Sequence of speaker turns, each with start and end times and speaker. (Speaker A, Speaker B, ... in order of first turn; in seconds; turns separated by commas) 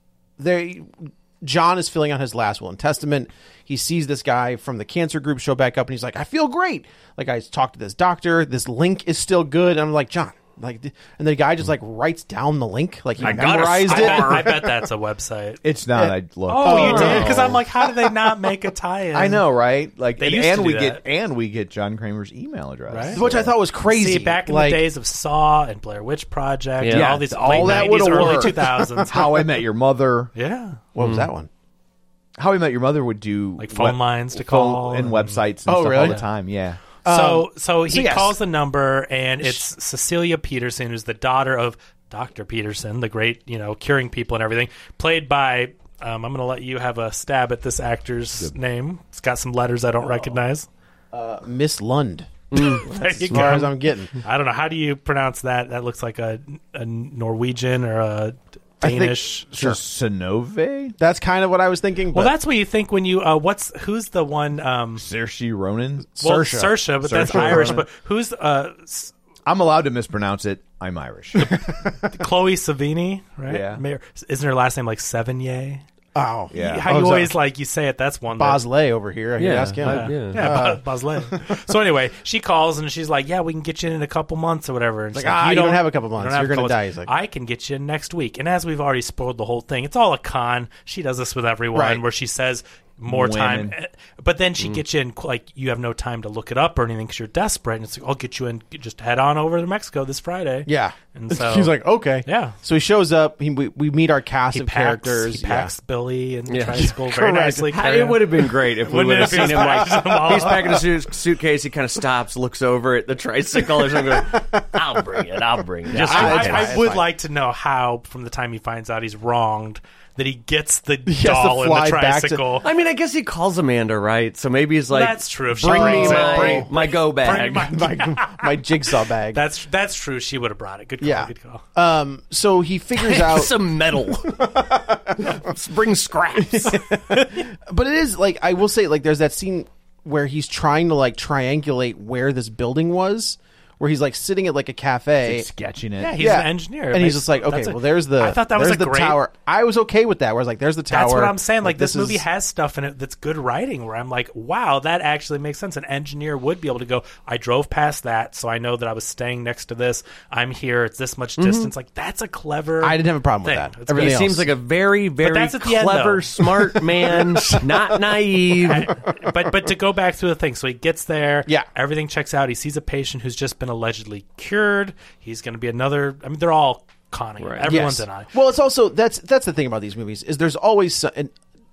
Speaker A: 0.4-14.7, Speaker B: 13.2-15.6, Speaker C: 13.2-14.5, Speaker D: 13.2-13.7, Speaker D: 15.6-17.6, Speaker A: 15.9-17.8, Speaker B: 16.5-19.4, Speaker C: 16.9-17.3, Speaker D: 19.1-23.5, Speaker B: 20.2-21.0, Speaker B: 22.9-23.2, Speaker A: 23.1-24.8, Speaker B: 23.9-29.4, Speaker C: 26.8-27.3, Speaker D: 26.9-30.3, Speaker A: 27.5-29.4, Speaker B: 30.3-30.8, Speaker A: 30.9-31.5, Speaker C: 31.0-31.3, Speaker D: 32.4-36.8, Speaker B: 33.6-35.4, Speaker A: 35.7-36.2, Speaker A: 37.0-38.4, Speaker B: 37.0-50.7, Speaker A: 51.1-54.1, Speaker C: 52.5-53.5, Speaker B: 52.5-59.5, Speaker A: 58.8-59.8, Speaker D: 58.9-61.0, Speaker A: 61.0-62.3, Speaker B: 62.1-65.0, Speaker D: 65.0-66.1, Speaker A: 66.2-67.8, Speaker B: 66.2-69.1, Speaker D: 67.0-67.8, Speaker D: 69.5-71.6, Speaker B: 71.4-75.8, Speaker A: 71.5-72.1, Speaker D: 73.5-73.8, Speaker A: 76.1-77.3, Speaker D: 76.5-76.9, Speaker B: 76.5-78.6, Speaker A: 78.3-81.4, Speaker C: 79.4-80.7, Speaker B: 79.8-101.7, Speaker A: 85.1-87.1, Speaker A: 91.7-92.0, Speaker D: 93.1-93.7, Speaker A: 100.7-105.7, Speaker B: 102.2-102.6, Speaker B: 104.5-110.8, Speaker C: 106.5-106.9, Speaker A: 106.8-108.0, Speaker C: 107.7-116.8, Speaker A: 109.1-110.8, Speaker A: 113.8-114.8, Speaker A: 115.9-117.0, Speaker B: 115.9-122.7, Speaker A: 121.1-122.4, Speaker C: 122.6-127.8, Speaker B: 124.9-131.6, Speaker A: 125.5-126.7, Speaker A: 127.3-129.4, Speaker A: 131.0-135.5, Speaker C: 133.0-134.5, Speaker C: 135.2-136.8, Speaker A: 136.3-145.5, Speaker B: 137.1-137.4, Speaker D: 145.2-146.2, Speaker B: 146.0-149.2, Speaker A: 146.2-152.2, Speaker B: 150.9-164.3, Speaker C: 161.4-161.7, Speaker A: 162.8-164.5, Speaker C: 163.9-168.9, Speaker B: 165.2-167.6, Speaker B: 168.6-178.3, Speaker C: 177.4-177.7, Speaker A: 177.6-181.3